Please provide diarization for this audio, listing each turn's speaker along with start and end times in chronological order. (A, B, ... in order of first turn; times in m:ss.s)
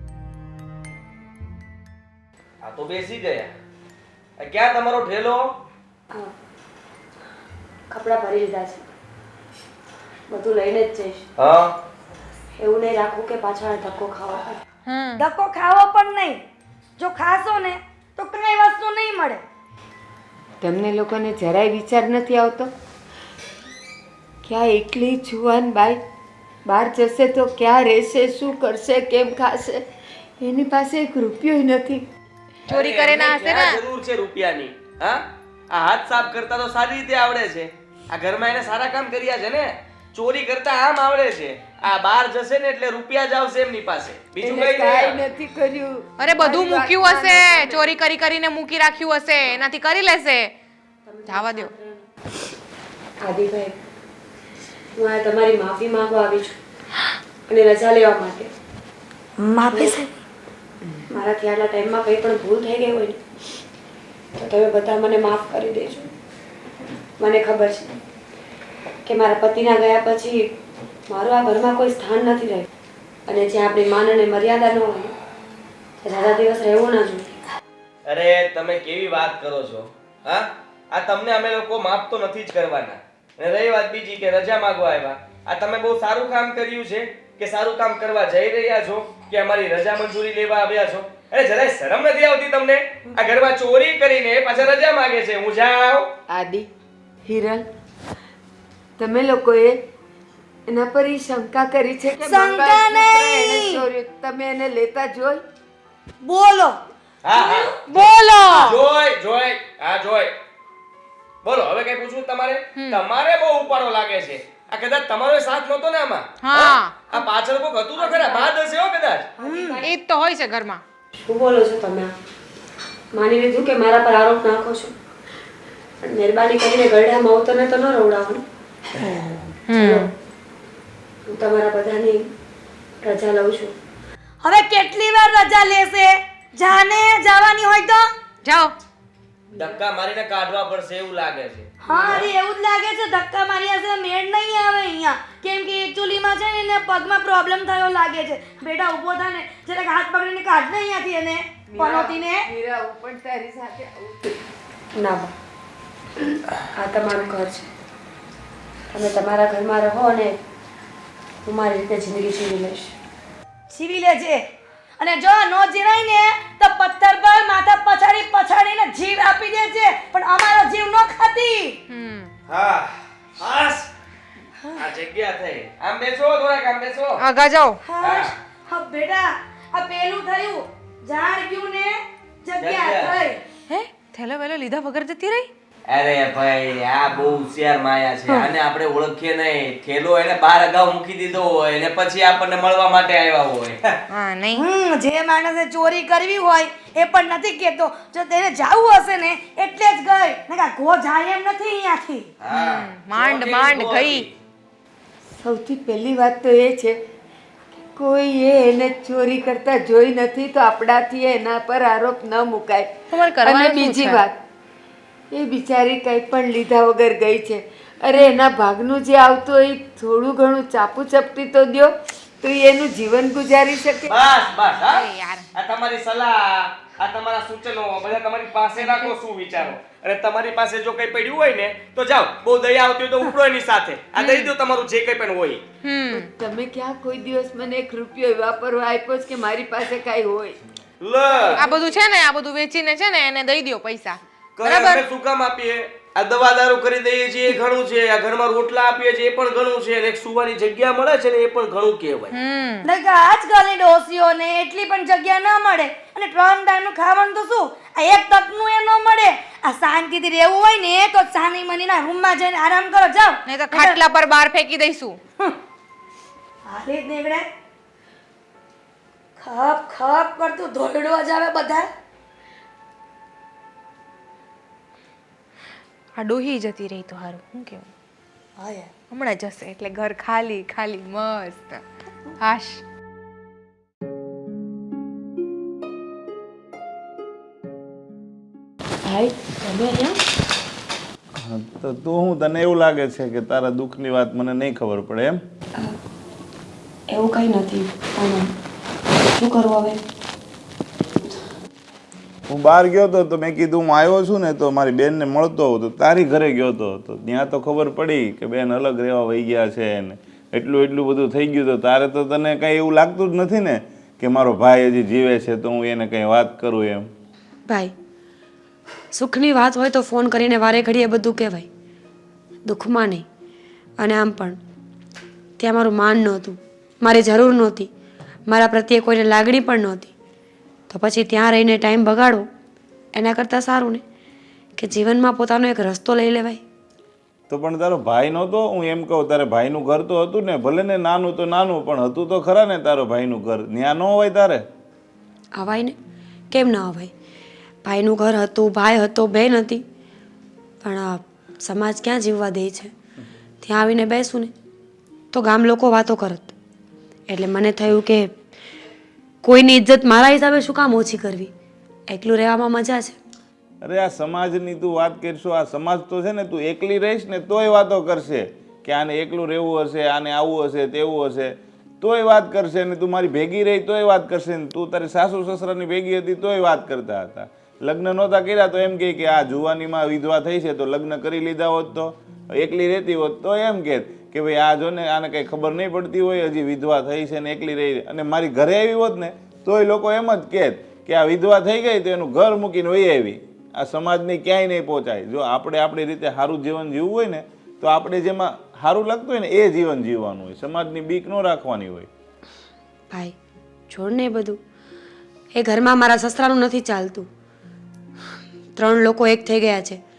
0:02.6-0:03.5 A
0:04.4-0:05.5 A
0:07.9-0:08.8 B
0:10.3-0:11.2 B
0:11.4-0:11.7 A
0:12.6-0:14.6 B
0:14.9-0:15.2 C
0:15.2-0:16.4 D
0:17.0-0:19.4 D
0:20.6-0:22.7 E
0:24.4-0:26.0 E
0:26.6-0:29.8 E
0:30.4-0:32.0 E
0:32.7-0:45.2 A
0:32.7-0:33.8 C
0:44.4-0:48.0 E
0:46.2-0:50.5 C
0:51.1-0:52.1 B
0:51.3-0:51.7 C
0:53.2-0:53.8 B
0:55.0-0:56.6 B
0:57.5-0:58.5 B
0:59.4-1:00.1 D
0:59.7-1:00.0 B
1:01.1-1:03.2 B
1:04.4-1:06.1 B
1:07.2-1:08.0 B
1:09.0-1:10.6 B
1:11.1-1:12.7 B
1:13.3-1:15.2 B
1:16.0-1:17.3 B
1:18.1-1:36.1 A
1:36.3-1:36.7 E
1:37.2-1:37.7 E
1:39.0-1:39.8 E
1:40.7-1:45.4 E
1:42.2-1:43.8 D
1:46.2-1:46.8 D
1:47.2-1:47.7 A
1:47.4-1:48.6 D
1:47.9-1:48.8 C
1:48.6-1:50.3 A
1:51.4-1:59.3 A
1:52.8-1:53.0 C
1:56.4-1:57.2 C
1:58.0-1:58.5 D
1:59.4-1:59.9 D
1:59.4-1:59.8 B
1:59.8-2:00.8 C
2:01.2-2:02.1 B
2:03.1-2:04.9 B
2:06.0-2:08.4 B
2:09.7-2:10.1 C
2:09.8-2:10.1 B
2:11.3-2:12.3 B
2:13.0-2:13.7 B
2:14.4-2:18.1 D
2:18.4-2:18.7 C
2:19.5-2:22.3 A
2:21.8-2:32.5 D
2:31.7-2:34.4 E
2:35.0-2:35.3 B
2:36.2-2:37.7 B
2:38.9-2:40.4 B
2:41.4-2:42.9 B
2:43.7-2:44.4 D
2:45.0-2:51.8 D
2:51.9-2:52.3 C
2:52.5-2:53.9 A
2:54.8-2:57.2 A
2:57.2-2:57.8 C
2:57.8-3:03.4 D
2:58.0-2:58.3 A
3:02.6-3:03.2 A
3:03.7-3:05.5 C
3:05.9-3:14.0 A
3:14.1-3:14.6 C
3:14.6-3:22.3 D
3:22.4-3:24.3 A
3:22.5-3:24.3 C
3:25.4-3:27.0 E
3:27.9-3:34.4 E
3:33.1-3:34.2 C
3:35.3-3:44.1 E
3:44.1-3:55.6 A
3:44.9-3:45.5 C
3:48.8-3:49.1 C
3:54.2-3:54.5 C
3:55.8-3:56.3 C
3:56.1-4:00.6 E
4:01.0-4:01.6 A
4:01.5-4:05.0 C
4:04.6-4:12.4 A
4:12.3-4:12.9 C
4:12.8-4:24.0 D
4:23.5-4:25.2 C
4:26.6-4:27.5 D
4:29.4-4:31.9 D
4:36.2-4:37.9 C
4:38.6-4:38.9 D
4:39.1-4:41.8 C
4:42.4-4:42.8 C
4:49.0-4:50.2 B
4:51.4-4:55.4 F
4:57.1-4:58.5 B
4:59.4-5:00.0 B
5:02.5-5:17.1 F
5:17.7-5:17.9 B
5:19.1-5:21.7 B
5:22.7-5:23.3 B
5:24.0-5:24.6 B
5:25.6-5:27.9 B
5:28.5-5:30.1 B
5:30.9-5:32.5 B
5:33.2-5:34.0 B
5:34.8-5:36.6 B
5:37.5-5:44.6 F
5:45.6-5:46.0 B
5:46.5-5:47.1 B
5:47.8-5:49.8 B
5:50.8-5:52.9 B
5:53.6-5:54.5 B
5:55.3-5:56.5 B
5:57.3-5:58.3 B
5:59.4-6:01.5 B
6:02.1-6:03.2 B
6:03.8-6:42.1 F
6:43.9-6:44.6 B
6:45.5-6:47.3 B
6:48.8-6:50.0 B